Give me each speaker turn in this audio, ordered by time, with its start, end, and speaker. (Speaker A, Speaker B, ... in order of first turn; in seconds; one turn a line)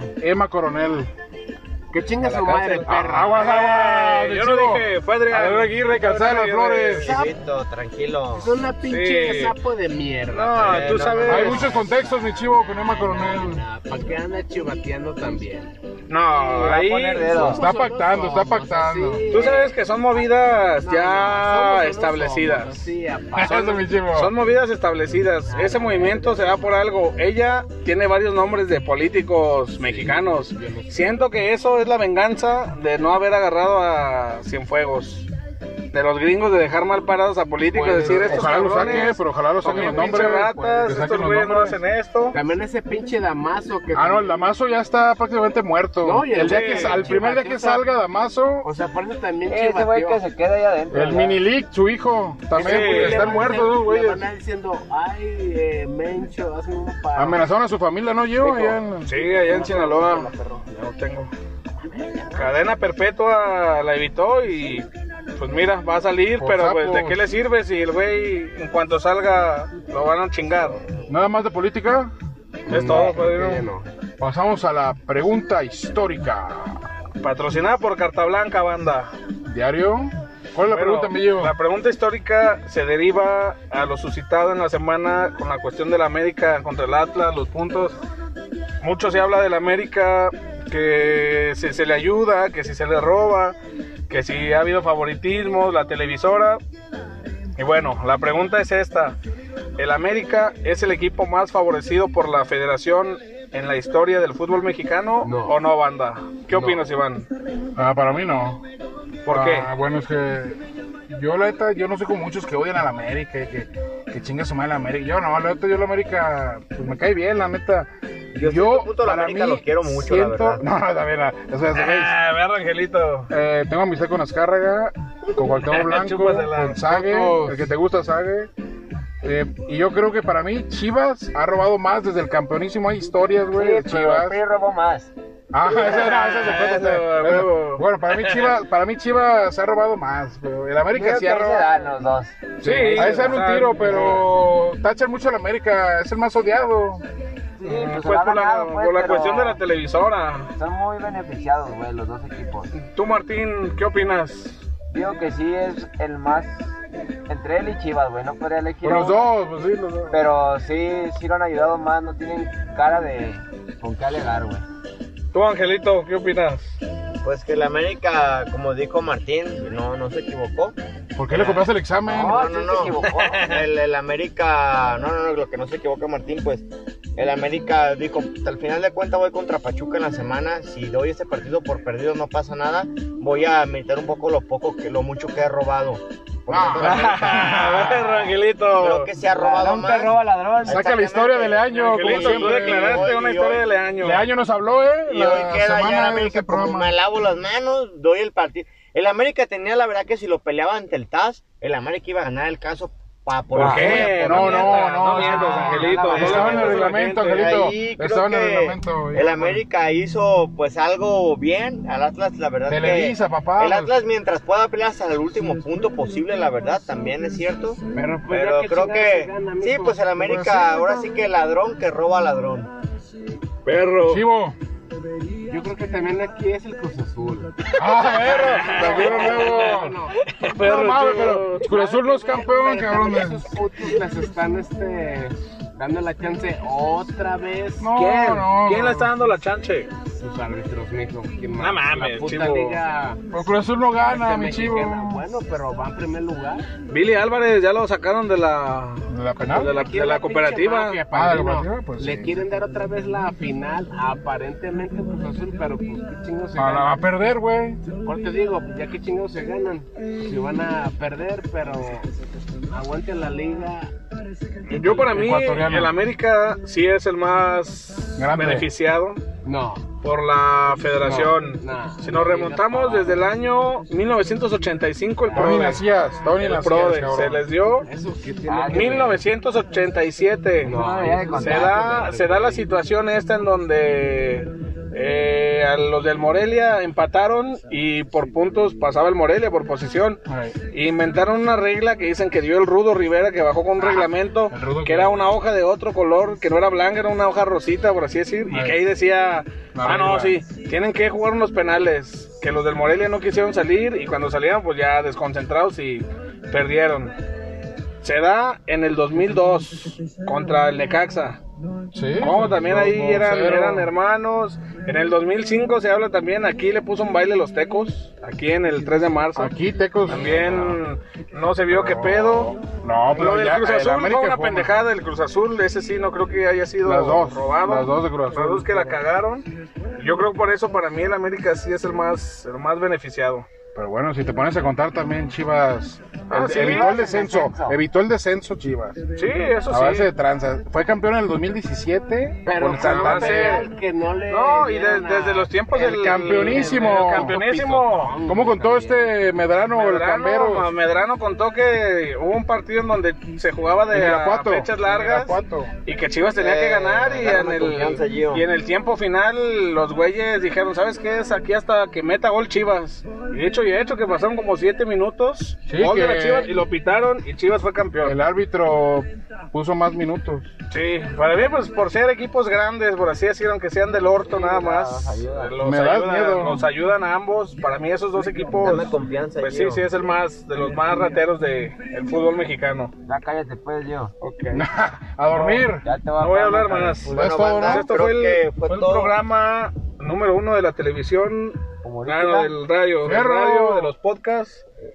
Speaker A: 0.2-1.1
Speaker B: 1.9-3.4
Speaker A: 2.2-7.2
Speaker C: 3.3-7.0
Speaker D: 6.9-8.6
Speaker B: 7.0-7.3
Speaker B: 8.3-15.7
Speaker C: 8.8-9.6
Speaker C: 10.3-11.8
Speaker D: 10.6-11.8
Speaker A: 11.3-13.7
Speaker C: 16.1-17.4
Speaker E: 16.3-17.7
Speaker B: 17.4-20.3
Speaker A: 17.4-19.4
Speaker C: 19.3-22.9
Speaker B: 20.8-23.8
Speaker A: 23.3-24.4
Speaker C: 23.4-35.3
Speaker B: 25.5-26.7
Speaker B: 29.8-31.2
Speaker C: 35.9-42.4
Speaker B: 37.7-39.2
Speaker A: 38.0-41.8
Speaker B: 39.7-40.2
Speaker B: 42.3-44.4
Speaker A: 43.9-48.7
Speaker B: 46.0-47.8
Speaker C: 46.4-47.2
Speaker B: 48.6-50.2
Speaker E: 49.5-51.4
Speaker A: 50.9-54.2
Speaker C: 52.5-53.6
Speaker B: 52.5-57.4
Speaker A: 57.2-59.1
Speaker B: 58.4-60.6
Speaker C: 59.0-61.3
Speaker B: 61.8-62.6
Speaker C: 62.4-70.8
Speaker A: 66.4-67.2
Speaker A: 71.1-72.1
Speaker B: 72.7-73.9
Speaker C: 72.7-73.7
Speaker A: 72.9-73.2
Speaker A: 74.2-76.8
Speaker C: 77.2-79.1
Speaker A: 79.5-81.5
Speaker C: 80.7-88.0
Speaker C: 88.8-93.6
Speaker C: 94.1-96.6
Speaker C: 97.6-99.2
Speaker C: 99.8-107.3
Speaker B: 105.2-105.6
Speaker B: 106.5-106.8
Speaker A: 107.8-108.6
Speaker C: 109.2-109.7
Speaker A: 109.3-122.1
Speaker D: 118.3-120.6
Speaker C: 121.7-123.3
Speaker A: 123.3-128.5
Speaker C: 125.7-127.6
Speaker A: 129.2-134.4
Speaker E: 133.5-135.1
Speaker A: 135.5-141.7
Speaker C: 135.7-138.5
Speaker E: 140.9-144.2
Speaker C: 142.6-144.2
Speaker A: 142.6-147.0
Speaker E: 147.6-149.6
Speaker C: 147.6-150.5
Speaker E: 150.6-152.7
Speaker C: 152.7-154.6
Speaker E: 154.9-156.7
Speaker E: 157.3-159.3
Speaker A: 158.8-160.2
Speaker E: 160.1-164.7
Speaker C: 165.3-166.8
Speaker D: 167.2-170.8
Speaker A: 171.2-172.4
Speaker D: 171.3-188.2
Speaker E: 172.1-173.5
Speaker C: 173.1-173.6
Speaker A: 186.5-188.2
Speaker C: 186.8-189.1
Speaker D: 188.8-193.7
Speaker E: 189.3-190.8
Speaker A: 190.6-193.2
Speaker C: 191.7-194.2
Speaker A: 194.0-196.9
Speaker D: 195.1-222.7
Speaker C: 203.5-207.6
Speaker A: 203.6-209.7
Speaker B: 205.2-206.7
Speaker E: 205.8-206.2
Speaker A: 212.7-213.9
Speaker B: 217.9-220.6
Speaker A: 220.3-220.7
Speaker C: 223.7-224.2
Speaker A: 224.1-224.6
Speaker B: 225.5-227.5
Speaker A: 227.8-230.0
Speaker C: 228.1-231.7
Speaker B: 228.2-230.2
Speaker A: 230.6-233.5
Speaker B: 231.7-238.0
Speaker A: 237.8-239.1
Speaker C: 237.9-239.9
Speaker B: 240.2-243.2
Speaker C: 241.6-242.8
Speaker A: 243.3-245.2
Speaker B: 244.1-246.7
Speaker C: 246.9-251.0
Speaker A: 249.1-249.8
Speaker B: 249.6-256.9
Speaker A: 251.1-252.4
Speaker A: 256.6-257.8
Speaker B: 257.9-262.1
Speaker B: 262.7-263.9
Speaker C: 264.7-269.2
Speaker A: 265.0-265.9
Speaker A: 268.2-268.7
Speaker B: 269.4-269.9
Speaker C: 270.0-275.8
Speaker B: 271.0-273.2
Speaker B: 275.3-275.8
Speaker A: 275.3-277.4
Speaker C: 276.4-277.9
Speaker B: 277.9-279.2
Speaker E: 278.5-279.1
Speaker C: 278.7-307.1
Speaker B: 280.6-282.6
Speaker E: 280.6-282.1
Speaker A: 290.3-290.6
Speaker A: 293.8-295.2
Speaker A: 298.5-298.8
Speaker A: 299.8-300.4
Speaker C: 308.0-311.4
Speaker A: 311.9-313.9
Speaker C: 312.2-319.5
Speaker A: 319.4-320.8
Speaker C: 320.1-322.6
Speaker A: 321.7-324.8
Speaker C: 323.1-329.5
Speaker A: 326.8-328.9
Speaker C: 330.0-333.5
Speaker A: 333.8-339.0
Speaker C: 336.3-337.1
Speaker E: 336.4-337.8
Speaker C: 339.1-340.1
Speaker A: 339.7-343.7
Speaker B: 342.4-349.1
Speaker C: 342.7-343.7
Speaker C: 344.3-348.2
Speaker A: 345.8-347.4
Speaker A: 348.2-350.7
Speaker C: 349.7-368.2
Speaker A: 353.9-355.7
Speaker D: 356.4-358.4
Speaker A: 365.7-366.5
Speaker A: 368.0-370.5
Speaker C: 370.7-382.9
Speaker E: 374.2-375.5
Speaker A: 375.6-376.6
Speaker D: 378.5-379.9
Speaker E: 383.0-384.1
Speaker C: 384.2-384.6
Speaker A: 384.5-385.8
Speaker E: 385.3-387.2
Speaker C: 386.2-394.6
Speaker A: 387.1-387.9
Speaker D: 387.1-389.1
Speaker E: 391.8-392.5
Speaker A: 393.0-393.9